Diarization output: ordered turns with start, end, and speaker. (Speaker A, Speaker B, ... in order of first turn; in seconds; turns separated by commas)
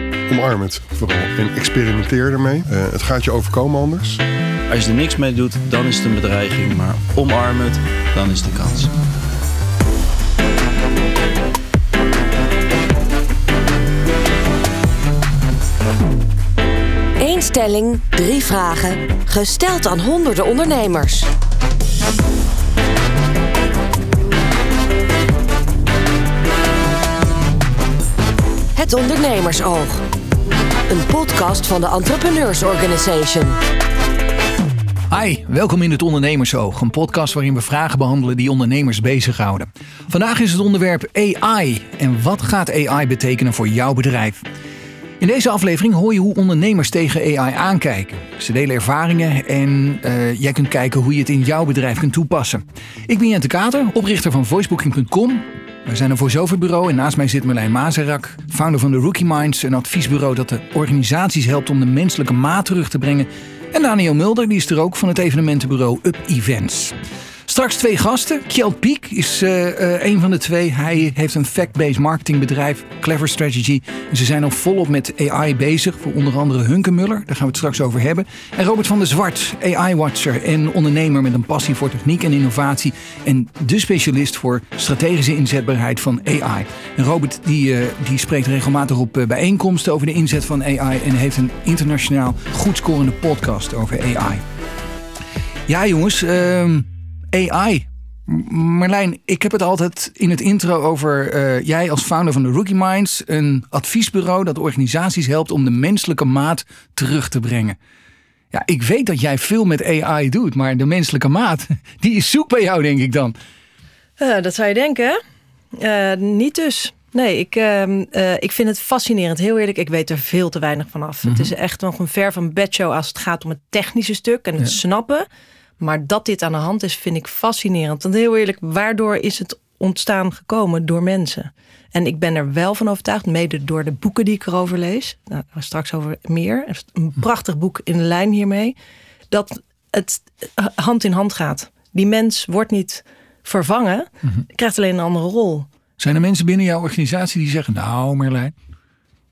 Speaker A: 0.3-4.2, Speaker B: 4.7-8.9, Speaker C: 17.2-21.3, Speaker C: 28.7-30.0, Speaker C: 30.9-33.6, Speaker D: 35.1-44.4, Speaker D: 45.2-66.9, Speaker D: 67.5-94.4, Speaker D: 95.7-107.8, Speaker D: 108.5-113.3, Speaker E: 114.2-115.2, Speaker E: 115.7-125.3, Speaker D: 121.2-121.5, Speaker E: 125.8-138.7, Speaker E: 139.3-145.7, Speaker D: 146.0-148.5